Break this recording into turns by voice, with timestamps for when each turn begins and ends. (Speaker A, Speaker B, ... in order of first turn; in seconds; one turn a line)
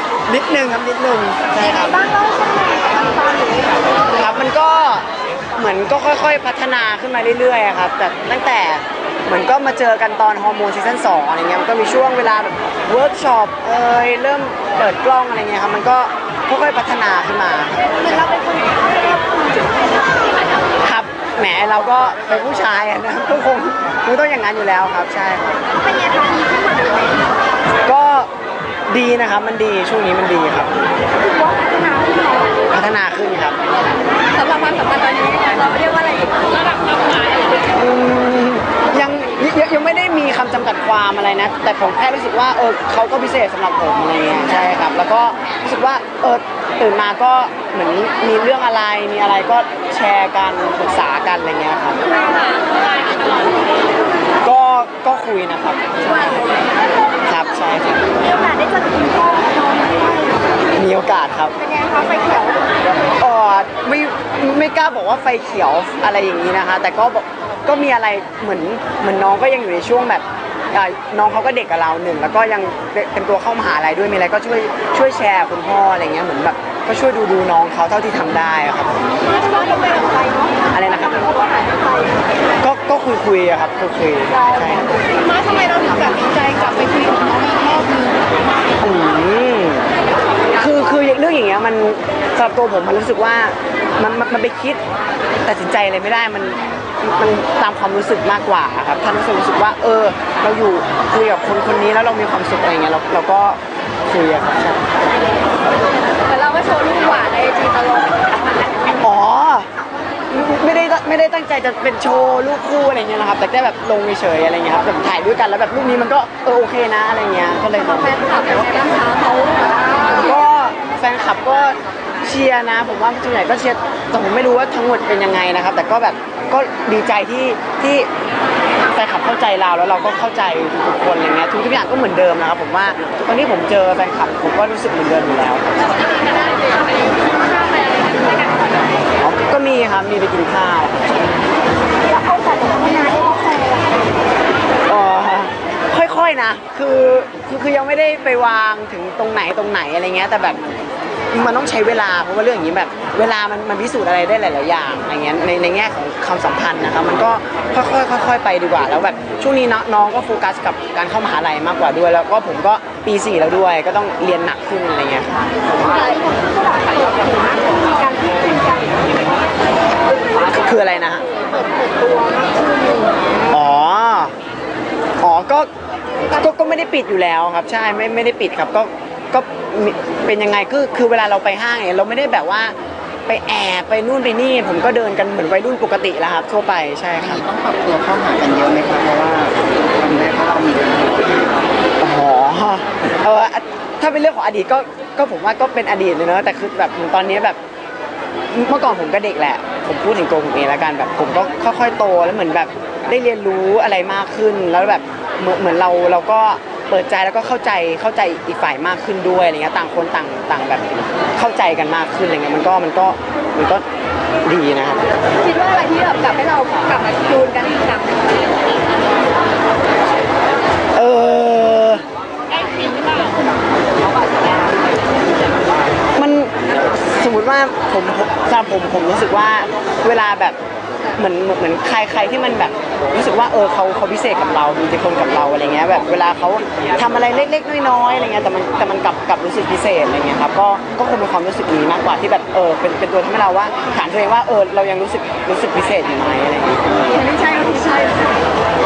Speaker A: 0.3-2.0
Speaker B: 1.7-4.0
Speaker A: 4.1-17.8
Speaker B: 18.0-19.9
Speaker A: 20.8-25.6
Speaker B: 25.7-27.2
Speaker A: 27.9-28.3
Speaker A: 28.9-30.7
Speaker B: 31.2-32.6
Speaker A: 32.7-33.6
Speaker B: 34.3-36.8
Speaker A: 37.7-52.1
Speaker B: 52.3-52.6
Speaker A: 54.4-56.5
Speaker A: 57.2-58.0
Speaker B: 58.2-60.6
Speaker A: 60.7-61.5
Speaker B: 61.6-62.8
Speaker A: 63.2-79.0
Speaker B: 79.2-80.7
Speaker A: 80.7-81.3
Speaker B: 81.2-82.2
Speaker A: 82.6-84.9
Speaker B: 84.3-88.2
Speaker A: 88.8-89.9
Speaker A: 90.5-94.8
Speaker A: 95.4-104.8
Speaker B: 106.2-108.9
Speaker A: 109.0-109.7
Speaker A: 110.3-118.2
Speaker B: 117.8-120.2
Speaker A: 120.2-128.1
Speaker A: 128.9-135.9
Speaker A: 139.2-141.3
Speaker B: 142.0-144.0
Speaker A: 144.9-150.6
Speaker A: 151.3-165.5
Speaker B: 165.8-169.3
Speaker A: 170.4-171.2
Speaker B: 171.2-173.2
Speaker A: 173.5-174.3
Speaker A: 175.2-175.7
Speaker A: 176.3-182.7
Speaker A: 183.3-187.4
Speaker C: 187.2-191.7
Speaker A: 192.0-197.6
Speaker A: 198.5-213.8
Speaker A: 214.4-215.1
Speaker B: 215.3-218.6
Speaker A: 220.9-222.0
Speaker B: 222.5-223.4
Speaker A: 226.2-230.6
Speaker A: 231.2-246.9
Speaker B: 247.1-248.3